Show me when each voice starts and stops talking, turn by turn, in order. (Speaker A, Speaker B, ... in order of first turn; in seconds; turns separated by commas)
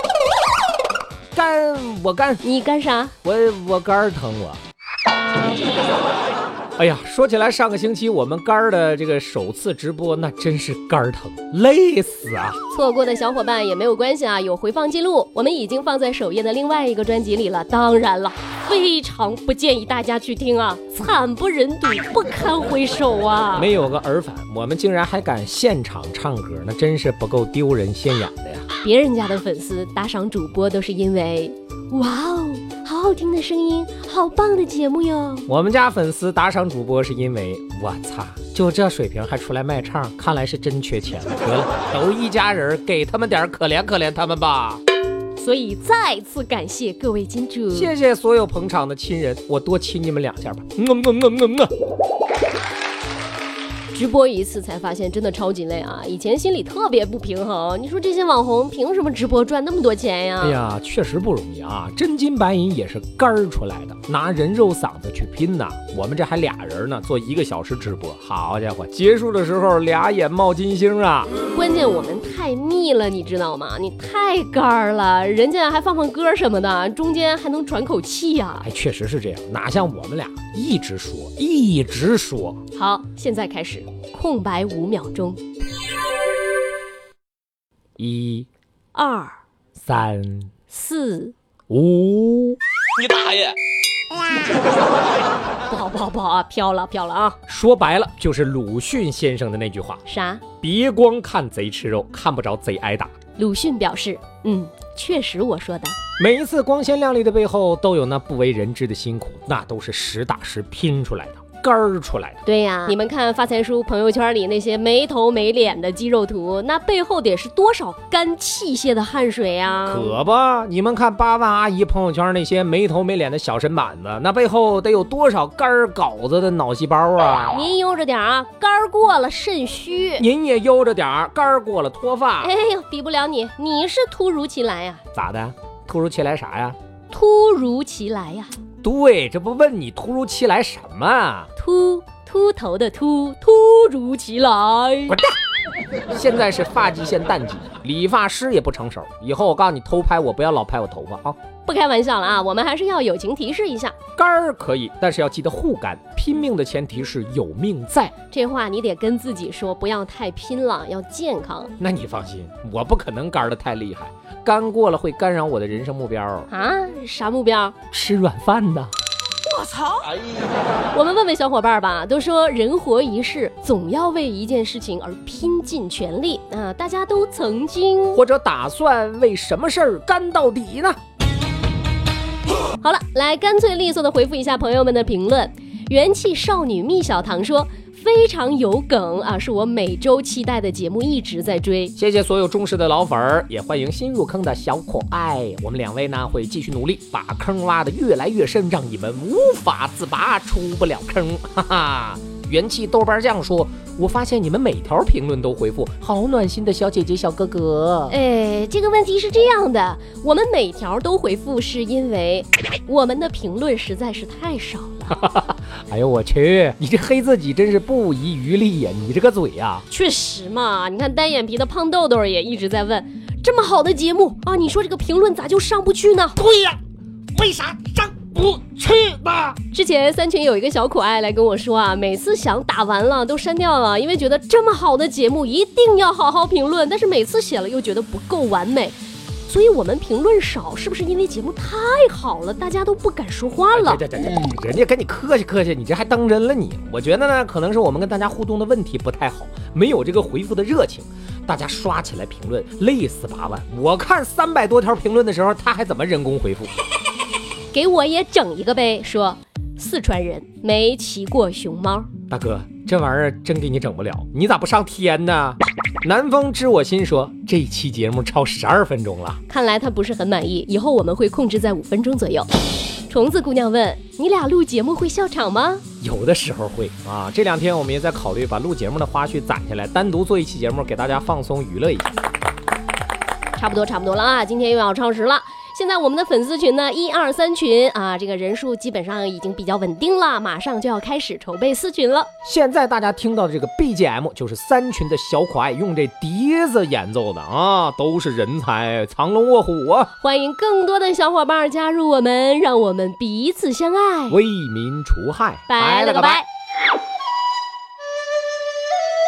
Speaker A: 1.4-2.4, Speaker B: 2.4-3.1, Speaker A: 3.2-4.6, Speaker A: 6.8-12.6, Speaker B: 12.7-23.7, Speaker A: 23.6-28.7, Speaker B: 28.8-35.5, Speaker A: 35.5-44.8, Speaker B: 45.4-47.9, Speaker A: 47.7-51.7, Speaker B: 53.9-60.6, Speaker A: 60.4-71.3, Speaker B: 71.5-78.7, Speaker A: 78.6-82.6, Speaker B: 82.7-85.4, Speaker A: 88.0-88.5, Speaker B: 88.9-89.4, Speaker A: 89.9-90.5, Speaker B: 90.7-91.3, Speaker A: 91.7-92.6, Speaker B: 95.7-97.4, Speaker A: 97.5-100.0, Speaker B: 100.1-100.4, Speaker A: 100.6-103.1, Speaker B: 103.4-106.0, Speaker A: 106.2-112.4, Speaker B: 112.5-120.2, Speaker A: 119.9-127.6, Speaker B: 127.5-130.2, Speaker A: 130.2-132.5, Speaker B: 132.4-135.0, Speaker A: 135.1-136.8, Speaker B: 137.1-138.5, Speaker A: 138.8-141.5, Speaker B: 141.6-145.2, Speaker A: 145.1-145.3, Speaker A: 146.0-151.4, Speaker B: 151.7-153.9, Speaker A: 154.2-158.1, Speaker B: 158.3-161.7, Speaker A: 161.8-166.5, Speaker B: 166.5-167.7, Speaker A: 167.9-168.9, Speaker B: 169.6-170.1, Speaker B: 170.9-178.2, Speaker A: 178.1-181.0, Speaker B: 182.8-191.9, Speaker A: 192.0-208.2, Speaker B: 208.1-215.3, Speaker A: 215.1-219.9, Speaker B: 219.9-226.4, Speaker A: 226.4-226.8, Speaker A: 227.3-229.6, Speaker B: 229.7-238.9, Speaker B: 239.5-244.0, Speaker A: 243.7-256.8, Speaker B: 257.7-262.1, Speaker A: 262.3-269.4, Speaker B: 269.5-272.5, Speaker B: 273.1-275.8, Speaker A: 276.0-282.1, Speaker B: 283.6-292.3, Speaker A: 292.4-300.1, Speaker B: 300.2-304.4, Speaker A: 304.3-306.4, Speaker B: 305.7-306.5